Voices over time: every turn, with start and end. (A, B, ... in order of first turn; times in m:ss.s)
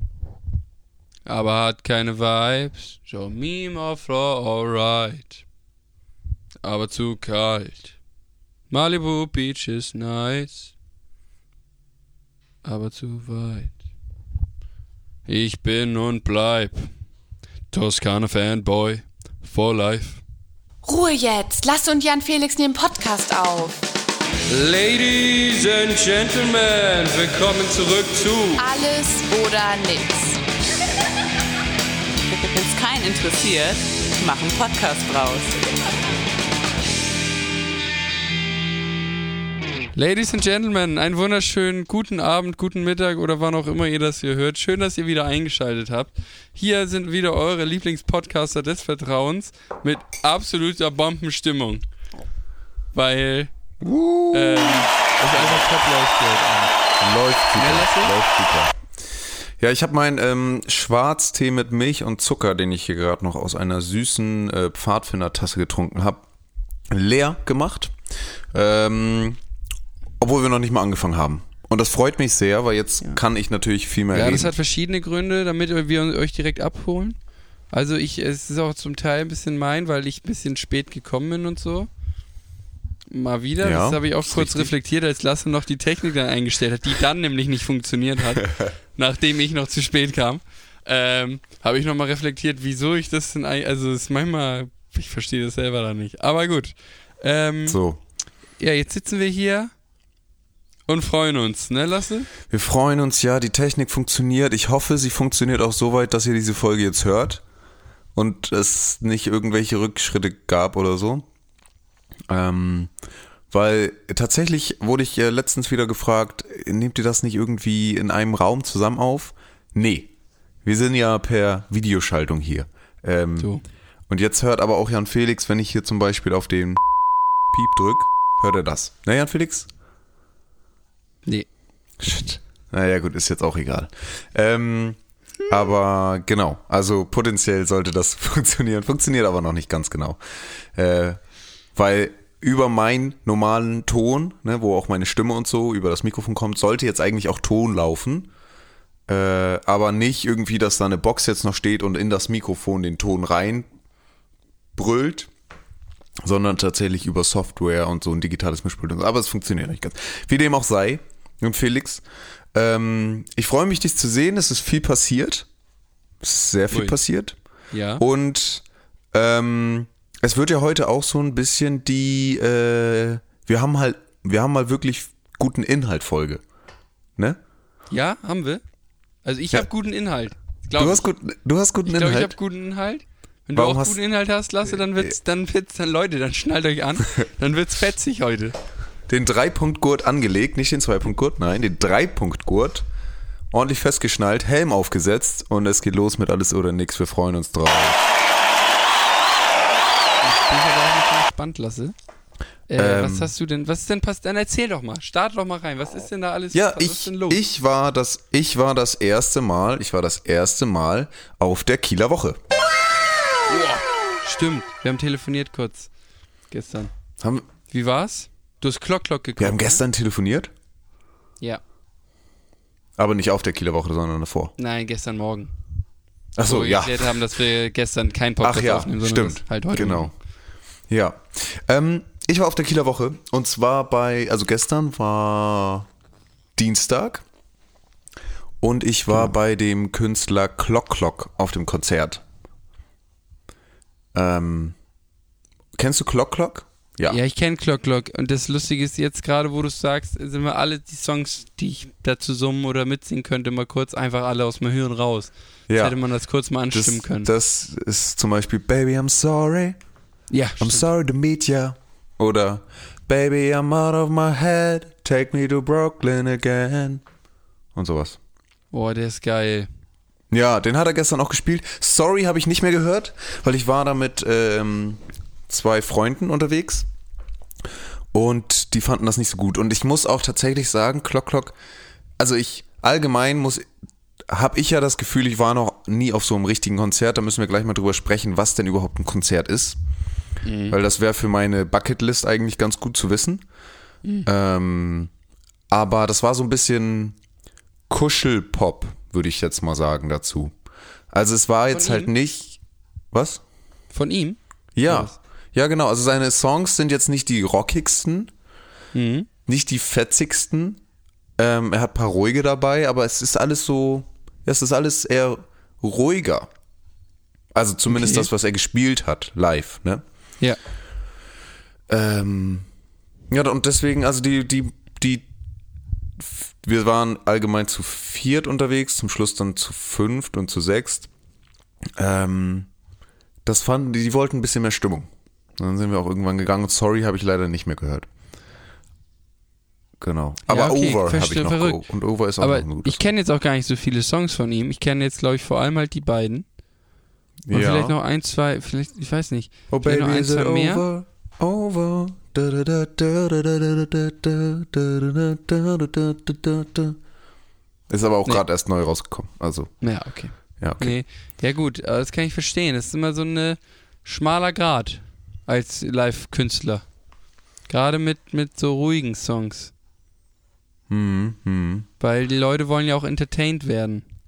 0:01.3-0:05.4 A
0:06.6-0:08.0 A
0:08.7-0:10.7 A
0:12.6-0:13.8 A
0:15.3-0:16.9 A
0:17.7-0:20.2 A
0:20.9-0:23.8 B
0:24.5-0:28.6 A
0:28.6-0:30.4 B
0:32.3-0:35.6 C
0:40.0-0:51.8 A
0:52.9-0:53.5 A
0:53.8-0:54.9 D
0:54.3-0:56.7 A
0:57.0-1:06.2 D
0:57.6-0:58.2 A
1:06.9-1:08.0 D
1:08.5-1:09.4 D
1:10.2-1:14.5 D
1:14.1-1:17.2 A
1:17.7-1:21.9 A
1:23.1-1:37.8 A
1:23.6-1:24.7 D
1:28.4-1:28.7 D
1:37.7-1:38.0 D
1:38.6-1:39.7 A
1:40.9-1:42.3 A
1:42.5-1:47.4 D
1:48.2-1:51.3 D
1:52.3-1:52.9 D
1:53.5-2:00.1 D
2:00.6-2:03.5 D
2:04.1-2:06.8 D
2:07.5-2:09.7 D
2:12.0-2:21.2 D
2:21.8-2:28.3 D
2:29.1-2:33.7 D
2:34.8-2:35.3 D
2:36.2-2:45.5 D
2:46.2-2:47.4 D
2:46.7-2:47.0 A
2:47.7-2:48.0 A
2:48.0-2:56.4 D
2:57.9-2:58.6 A
2:59.2-3:01.1 A
3:00.8-3:02.3 D
3:01.9-3:08.6 A
3:03.6-3:04.0 D
3:04.7-3:05.1 D
3:09.1-3:12.9 D
3:13.5-3:18.1 D
3:20.2-3:21.9 A
3:22.7-3:27.4 A
3:22.8-3:23.3 D
3:26.5-3:32.4 D
3:33.5-3:35.9 A
3:36.5-3:36.9 A
3:37.2-3:37.5 D
3:37.7-3:39.8 A
3:39.4-3:40.5 D
3:43.0-3:44.5 D
3:44.6-3:45.5 A
3:46.4-3:47.2 D
3:46.4-3:50.1 A
3:48.4-3:50.1 D
3:50.9-3:55.9 D
3:56.6-3:57.2 D
3:58.6-4:02.2 D
4:04.1-4:04.8 D
4:05.8-4:07.2 D
4:07.1-4:17.3 A
4:15.7-4:16.0 D
4:16.7-4:19.8 D
4:20.3-4:20.8 A
4:20.6-4:27.0 D
4:27.8-4:28.2 D
4:28.7-4:29.7 A
4:30.3-4:36.9 D
4:38.1-4:41.6 D
4:42.2-4:43.7 D
4:44.3-4:49.8 D
4:50.4-4:50.8 A
4:50.7-4:53.4 D
4:54.2-4:55.1 D
4:55.7-4:57.2 D
4:57.9-5:00.5 D
5:01.1-5:02.6 D
5:01.7-5:02.1 A
5:03.1-5:03.4 D
5:03.9-5:05.2 A
5:04.8-5:08.3 D
5:08.9-5:09.3 A
5:09.5-5:10.8 D
5:11.4-5:16.5 D
5:17.5-5:20.0 D
5:17.9-5:18.3 A
5:21.9-5:22.7 D
5:23.3-5:25.3 D
5:26.2-5:31.1 D
5:32.0-5:32.7 D
5:33.4-5:38.1 D
5:40.0-5:43.0 D
5:40.5-5:41.8 A
5:42.4-5:46.4 A
5:47.5-5:47.9 D
5:47.5-5:50.8 A
5:49.7-5:57.0 D
5:57.9-5:59.7 D
5:59.8-6:06.8 A
6:00.6-6:01.0 D
6:07.7-6:09.7 A
6:10.9-6:11.9 D
6:12.0-6:14.0 A